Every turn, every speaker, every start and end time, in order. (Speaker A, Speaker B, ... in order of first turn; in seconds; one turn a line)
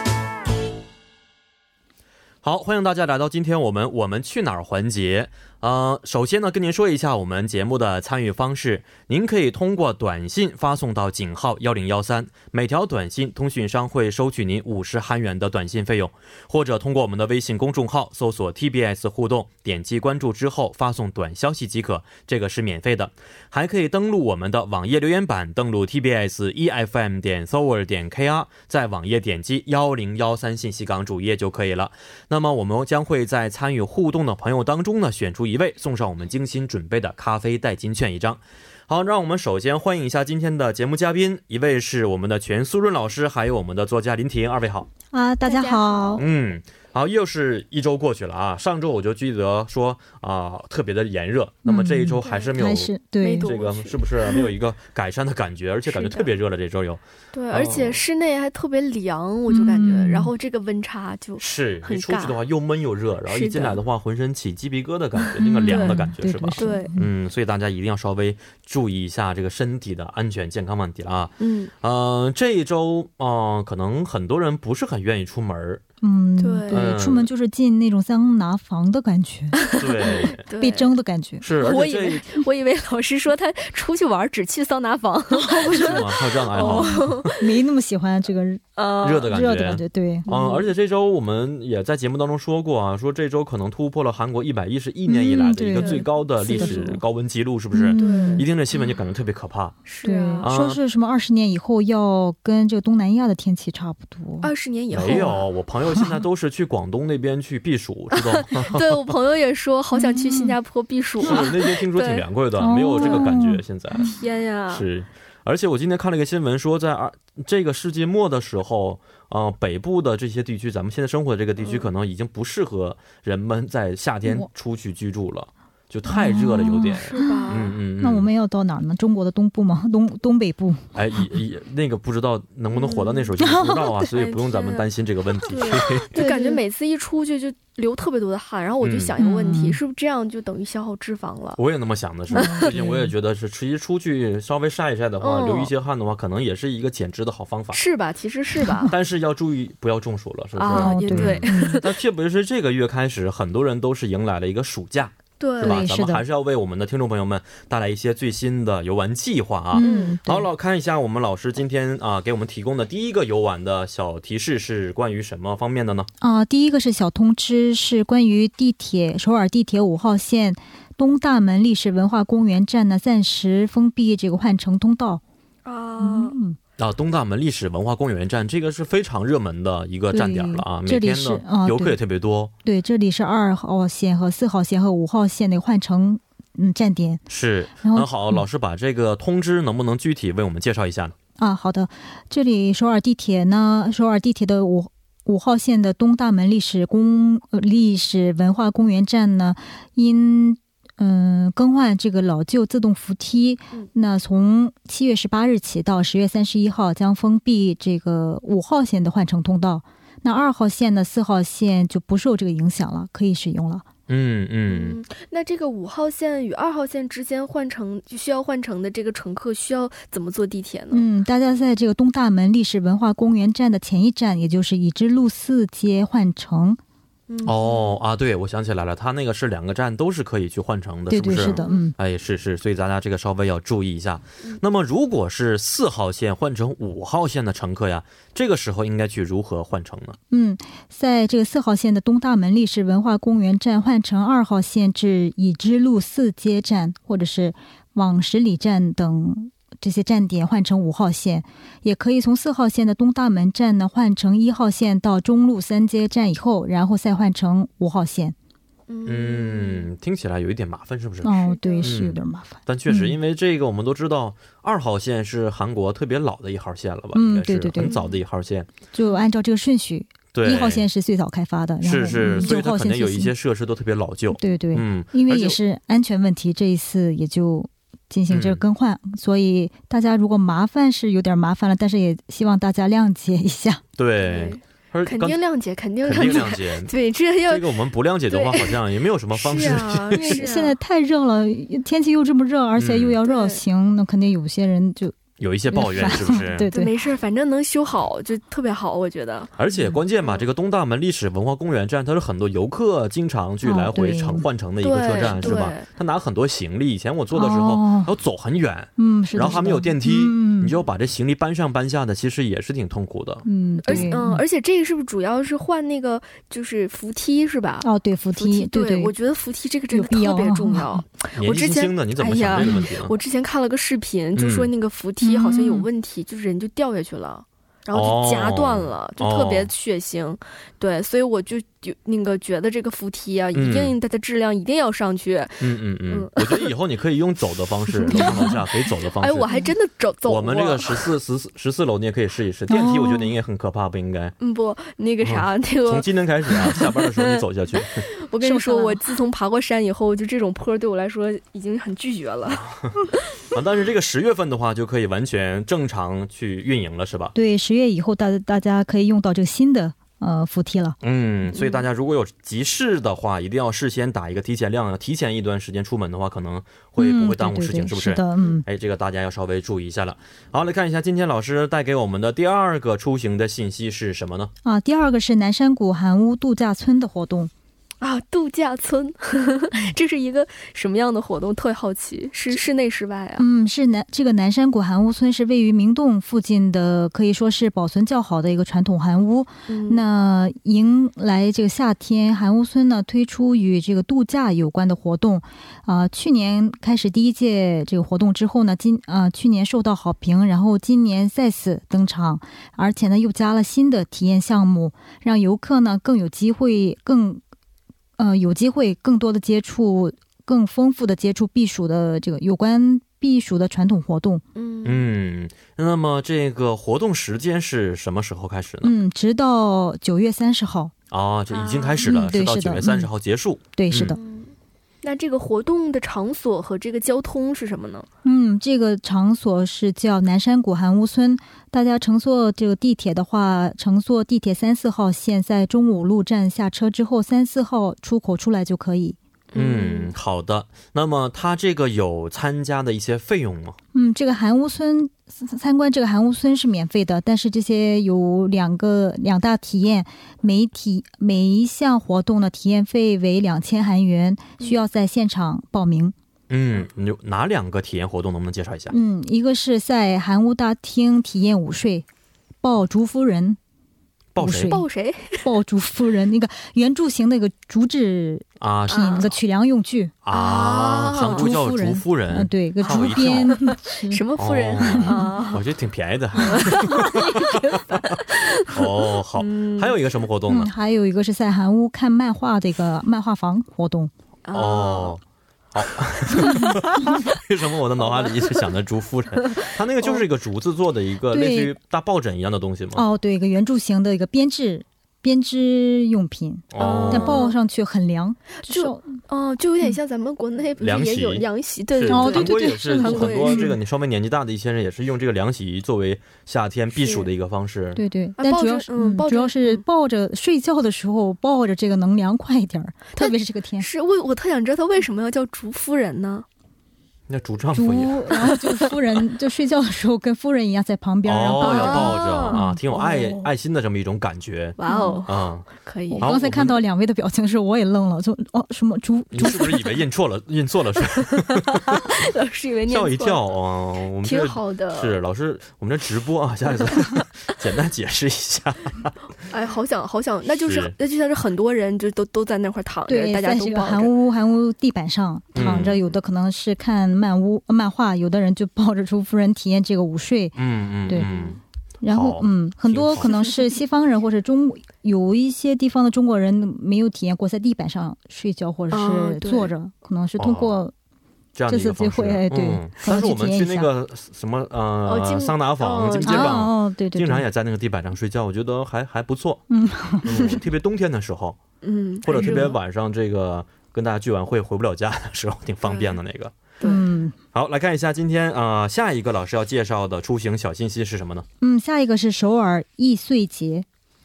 Speaker A: 2.4-44.9
Speaker B: 45.1-46.2
Speaker C: 45.4-46.3
Speaker A: 46.2-58.0
Speaker B: 51.6-53.5
Speaker C: 52.3-52.5
Speaker C: 53.2-54.5
Speaker C: 55.9-56.3
Speaker C: 57.3-62.4
Speaker B: 59.5-60.3
Speaker A: 61.4-75.8
Speaker C: 63.3-63.8
Speaker B: 65.4-67.1
Speaker C: 65.6-66.9
Speaker C: 71.4-71.7
Speaker B: 76.0-81.5
Speaker C: 76.4-77.0
Speaker A: 76.7-77.3
Speaker C: 79.6-80.9
Speaker A: 79.8-80.4
Speaker A: 81.4-82.2
Speaker C: 81.6-87.5
Speaker B: 85.4-86.0
Speaker A: 85.7-87.3
Speaker B: 86.6-88.7
Speaker C: 88.8-89.3
Speaker A: 89.0-99.8
Speaker B: 89.2-90.3
Speaker C: 90.3-90.7
Speaker B: 95.1-97.0
Speaker C: 95.8-97.0
Speaker B: 97.7-98.5
Speaker C: 98.0-98.5
Speaker C: 99.9-100.5
Speaker B: 100.0-104.5
Speaker A: 100.4-100.8
Speaker C: 104.4-105.5
Speaker A: 104.9-108.8
Speaker B: 105.0-105.3
Speaker C: 108.2-112.3
Speaker B: 109.9-110.5
Speaker A: 111.2-114.1
Speaker B: 111.2-111.5
Speaker B: 112.6-114.1
Speaker C: 112.9-113.3
Speaker C: 114.0-114.9
Speaker A: 114.7-128.3
Speaker C: 121.6-121.9
Speaker B: 126.1-130.9
Speaker C: 127.0-127.8
Speaker A: 130.9-136.2
Speaker C: 132.7-133.3
Speaker B: 133.4-134.0
Speaker C: 134.0-134.9
Speaker C: 135.4-141.6
Speaker B: 136.1-136.6
Speaker A: 138.8-139.1
Speaker B: 139.2-139.8
Speaker A: 141.6-147.8
Speaker C: 142.3-142.8
Speaker B: 142.3-143.1
Speaker C: 145.2-145.7
Speaker C: 147.7-148.9
Speaker A: 148.9-166.1
Speaker C: 150.6-151.9
Speaker B: 150.7-151.8
Speaker C: 155.4-155.8
Speaker B: 155.6-156.2
Speaker B: 159.7-160.5
Speaker C: 159.8-160.2
Speaker B: 166.2-175.2
Speaker C: 175.7-176.4
Speaker B: 176.0-176.6
Speaker A: 176.8-182.5
Speaker B: 180.1-182.0
Speaker B: 182.6-187.2
Speaker A: 187.3-191.2
Speaker B: 187.8-188.4
Speaker B: 191.4-213.9
Speaker A: 214.1-215.0
Speaker C: 214.7-221.1
Speaker B: 220.9-226.8
Speaker C: 227.3-228.0
Speaker A: 227.4-240.2
Speaker B: 231.1-232.0
Speaker C: 231.4-231.9
Speaker B: 240.3-258.4
Speaker C: 258.9-259.9
Speaker A: 259.1-268.7
Speaker B: 261.2-263.2
Speaker C: 261.3-262.0
Speaker B: 267.1-268.0
Speaker C: 267.8-268.2
Speaker B: 268.9-273.3
Speaker A: 270.3-270.9
Speaker A: 271.8-275.6
Speaker B: 274.3-283.8
Speaker A: 278.3-278.6
Speaker A: 284.0-285.4
Speaker C: 284.2-287.8
Speaker A: 286.0-286.9
Speaker A: 287.5-290.4
Speaker C: 288.3-288.8
Speaker C: 289.3-290.8
Speaker B: 290.2-295.2
Speaker A: 292.8-293.2
Speaker C: 293.2-293.6
Speaker A: 295.4-296.7
Speaker B: 295.7-297.0
Speaker C: 296.7-299.5
Speaker A: 299.6-314.1
Speaker B: 303.6-304.5
Speaker C: 304.8-305.9
Speaker B: 307.3-308.1
Speaker B: 309.0-310.7
Speaker B: 313.4-314.4
Speaker C: 313.9-336.7
Speaker B: 317.8-319.1
Speaker B: 319.9-321.0
Speaker A: 321.3-323.1
Speaker A: 324.4-324.7
Speaker B: 325.2-325.9
Speaker A: 327.9-329.7
Speaker A: 333.5-334.0
Speaker A: 335.6-339.5
Speaker B: 338.1-338.6
Speaker C: 338.1-338.5
Speaker C: 339.2-341.1
Speaker A: 340.3-344.4
Speaker B: 342.7-343.3
Speaker C: 344.4-353.1
Speaker A: 345.2-348.1
Speaker B: 348.4-349.0
Speaker A: 352.6-352.9
Speaker A: 353.5-357.3
Speaker B: 357.3-361.0
Speaker A: 361.0-374.5
Speaker C: 361.5-361.8
Speaker B: 367.0-368.6
Speaker B: 374.6-377.5
Speaker C: 378.0-383.4
Speaker B: 383.4-407.4
Speaker C: 389.7-390.0
Speaker B: 408.2-414.4
Speaker C: 414.6-415.1
Speaker A: 414.8-418.9
Speaker B: 418.8-420.9
Speaker A: 421.1-424.2
Speaker C: 421.5-422.1
Speaker B: 422.0-423.1
Speaker B: 423.8-424.2
Speaker C: 424.1-428.1
Speaker B: 428.2-439.2
Speaker C: 439.5-440.1
Speaker A: 439.6-443.8
Speaker B: 443.9-456.1
Speaker A: 456.5-458.9
Speaker B: 458.9-462.1
Speaker B: 462.6-463.6
Speaker A: 464.4-464.8
Speaker B: 464.4-464.9
Speaker C: 464.5-465.5
Speaker B: 465.4-470.1
Speaker A: 468.6-469.2
Speaker C: 468.9-469.3
Speaker A: 470.2-473.6
Speaker C: 470.3-471.5
Speaker B: 471.1-474.2
Speaker C: 472.9-475.6
Speaker A: 474.4-480.7
Speaker B: 474.9-475.4
Speaker C: 476.4-480.0
Speaker B: 480.5-484.1
Speaker C: 484.5-485.2
Speaker A: 484.5-485.2
Speaker A: 485.7-493.0
Speaker C: 488.0-488.5
Speaker C: 489.5-490.2
Speaker B: 491.3-491.7
Speaker B: 492.9-499.1
Speaker A: 496.7-497.4
Speaker C: 496.8-497.6
Speaker C: 498.6-503.8
Speaker A: 500.8-508.0
Speaker B: 502.1-503.8
Speaker C: 507.0-507.3
Speaker B: 508.0-513.9
Speaker C: 508.4-509.8
Speaker C: 513.1-516.5
Speaker A: 517.3-518.4
Speaker B: 517.8-522.8
Speaker A: 521.3-525.7
Speaker C: 521.6-523.5
Speaker C: 524.8-526.3
Speaker B: 524.9-525.3
Speaker B: 526.1-530.0
Speaker A: 526.2-526.8
Speaker A: 529.3-532.1
Speaker C: 531.2-533.4
Speaker A: 532.9-539.1
Speaker C: 534.2-535.2
Speaker C: 539.5-544.1
Speaker A: 540.7-540.9
Speaker B: 543.1-551.3
Speaker A: 545.5-546.0
Speaker A: 550.6-553.3
Speaker C: 551.2-551.5
Speaker B: 552.0-560.9
Speaker C: 558.9-559.7
Speaker A: 560.4-560.8
Speaker A: 561.5-569.6
Speaker B: 561.7-563.9
Speaker C: 565.1-566.6
Speaker B: 566.2-567.5
Speaker B: 569.7-570.6
Speaker A: 570.2-571.6
Speaker C: 571.8-572.8
Speaker A: 572.2-576.5
Speaker B: 572.4-572.7
Speaker C: 575.8-576.2
Speaker C: 576.8-577.1
Speaker B: 576.8-577.4
Speaker A: 577.5-581.5
Speaker B: 581.6-583.9